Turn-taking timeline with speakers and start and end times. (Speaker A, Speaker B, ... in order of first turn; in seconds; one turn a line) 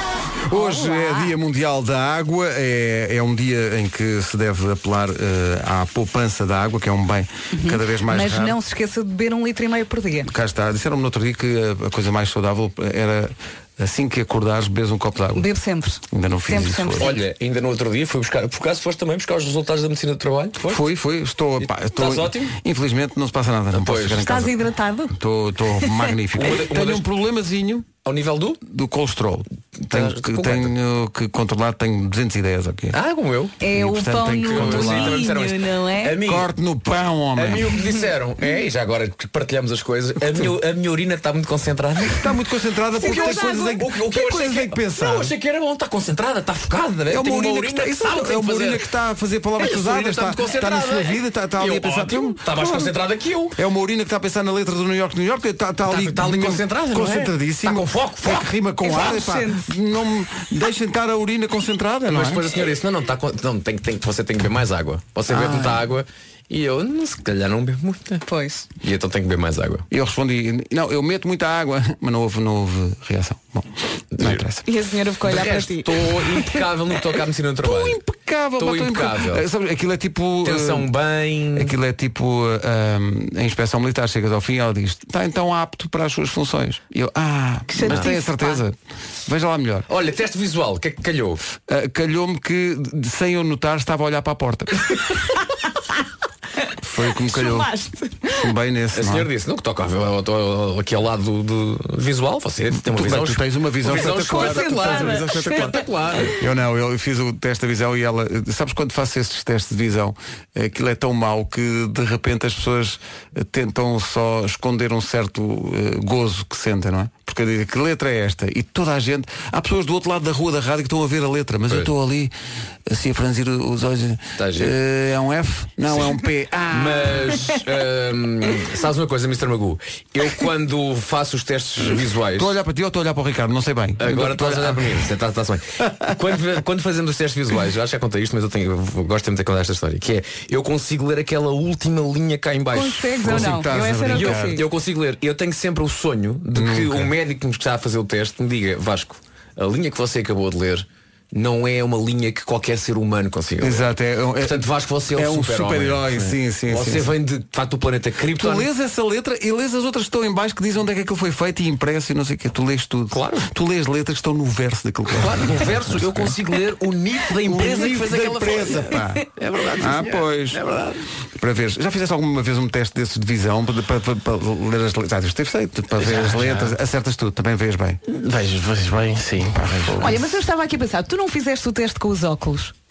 Speaker A: 0.4-8.6
Speaker B: 0.5-1.3
Speaker B: 7.5-10.3
Speaker A: 10.2-15.5
Speaker B: 15.3-17.1
Speaker A: 16.1-17.1
Speaker C: 17.0-20.8
Speaker A: 20.6-24.6
Speaker C: 21.6-22.6
Speaker C: 23.7-24.3
Speaker B: 24.2-25.1
Speaker A: 25.1-27.9
Speaker C: 26.4-27.1
Speaker C: 28.0-28.6
Speaker A: 28.6-33.0
Speaker C: 29.8-30.7
Speaker C: 32.9-33.6
Speaker B: 33.6-36.2
Speaker A: 33.7-35.2
Speaker C: 34.5-36.5
Speaker A: 36.2-37.8
Speaker C: 37.4-42.3
Speaker A: 42.1-45.3
Speaker B: 43.0-43.8
Speaker C: 43.0-48.9
Speaker A: 47.1-52.9
Speaker C: 49.6-53.6
Speaker A: 53.5-62.5
Speaker C: 55.9-58.5
Speaker B: 58.8-59.7
Speaker C: 62.1-68.2
Speaker A: 65.3-65.8
Speaker B: 68.3-68.7
Speaker C: 68.8-69.9
Speaker A: 69.9-74.6
Speaker C: 74.2-74.4
Speaker B: 74.7-75.9
Speaker C: 75.2-78.0
Speaker A: 77.6-80.9
Speaker C: 78.6-79.5
Speaker C: 80.4-81.7
Speaker A: 81.5-89.9
Speaker B: 87.7-88.6
Speaker C: 89.9-91.4
Speaker A: 91.7-94.9
Speaker A: 96.8-97.7
Speaker B: 97.2-98.4
Speaker A: 98.3-99.3
Speaker C: 98.9-106.4
Speaker A: 102.8-122.3
Speaker B: 104.0-105.8
Speaker A: 122.9-127.6
Speaker C: 124.4-124.7
Speaker C: 125.9-132.5
Speaker A: 132.3-135.1
Speaker C: 134.0-143.5
Speaker B: 142.7-144.6
Speaker A: 143.2-144.6
Speaker C: 144.1-158.7
Speaker A: 146.5-147.1
Speaker A: 153.6-157.1
Speaker A: 158.4-166.4
Speaker C: 163.1-163.5
Speaker C: 165.2-171.0
Speaker A: 167.4-170.6
Speaker A: 171.4-178.0
Speaker D: 176.4-176.7
Speaker D: 178.1-180.2
Speaker A: 179.4-180.2
Speaker B: 180.0-182.7